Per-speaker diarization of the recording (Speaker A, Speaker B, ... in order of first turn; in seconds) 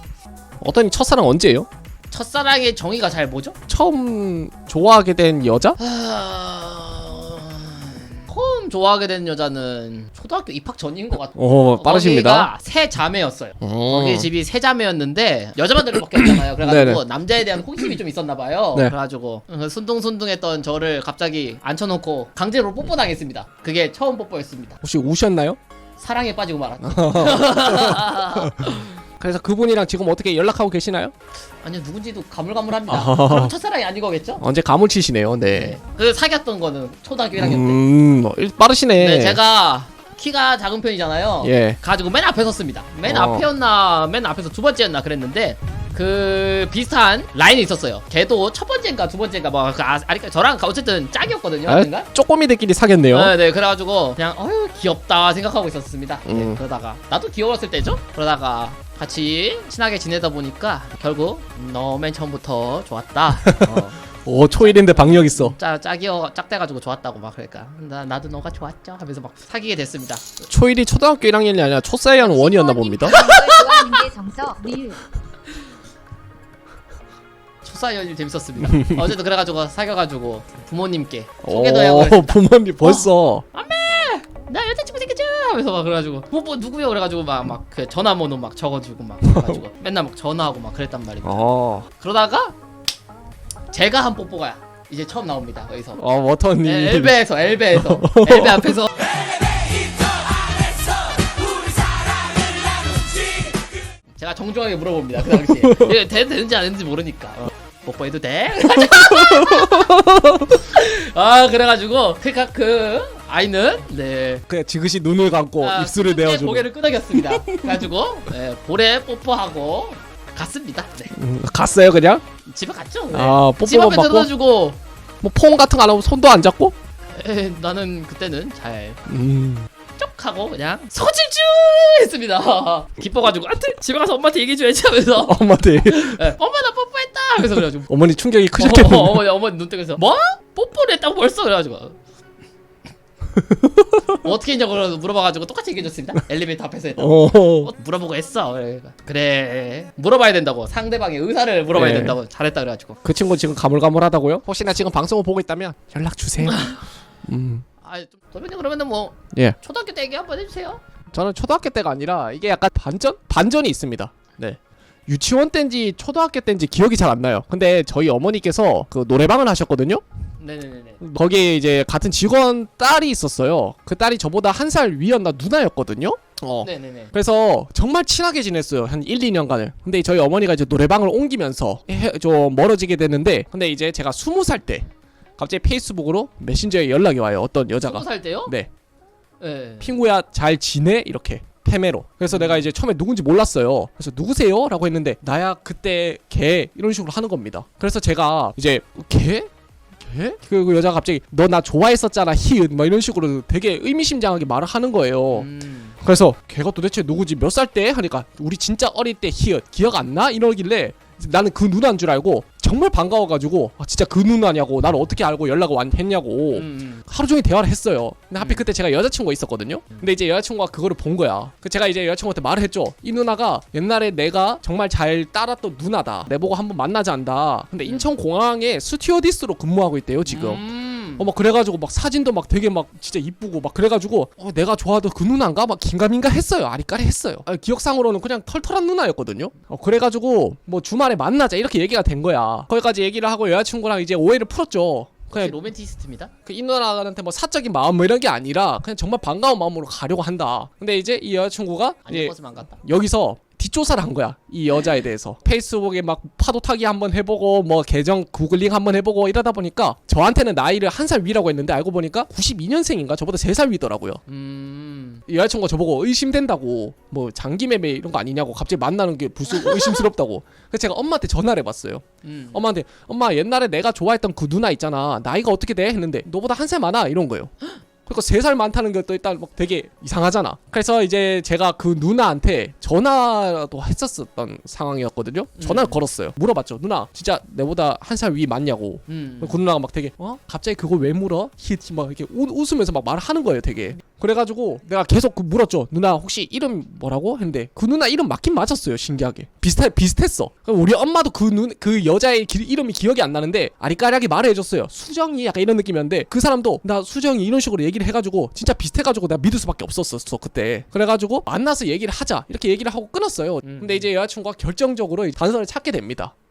Speaker A: 0.6-1.7, 3.7-5.8, 11.3-12.5, 13.6-14.3, 16.1-17.0, 24.8-25.6, 26.8-31.1, 32.9-33.5, 34.4-35.8, 37.4-39.4, 41.4-41.8, 43.0-43.5, 51.7-53.3, 56.2-56.6, 63.5-65.5, 70.5-73.6, 78.7-79.0, 81.4-83.4, 91.2-91.9, 96.0-97.1, 98.0-98.6, 108.9-110.6, 114.5-117.8, 121.1-122.2, 123.1-124.3, 125.2-126.7, 129.1-129.7, 135.2-136.2, 137.9-139.2, 143.3-144.2, 147.0-147.7, 151.7-152.2, 153.0-157.7, 161.1-170.0, 171.0-184.9, 185.4-188.7, 189.8-199.5, 200.0-205.5, 206.0-230.6, 231.2-245.6, 246.4-264.2, 265.3-277.5, 278.1-316.3
Speaker B: 2.1-3.5, 5.8-24.8, 26.0-29.0, 31.6-34.4, 35.5-37.8, 39.0-52.1, 53.1-64.0, 64.5-70.4, 72.2-74.0, 77.6-92.5, 93.7-96.0, 96.6-103.6, 104.2-109.9, 110.5-114.4, 115.6-121.1, 122.5-124.8, 127.2-129.0, 130.0-137.9, 138.6-142.0, 144.2-153.0, 156.4-156.8, 157.8-160.8, 170.4-171.0, 176.6-177.1, 187.8-188.5, 189.4-189.9, 192.3-192.7, 205.3-206.0, 216.5-217.1, 218.4-218.7, 227.8-228.1, 230.2-231.3, 245.3-246.3, 252.1-252.8, 264.3-265.2, 269.5-270.1, 272.2-272.6, 285.6-286.0, 289.1-289.6, 313.6-314.1
Speaker C: 72.5-75.0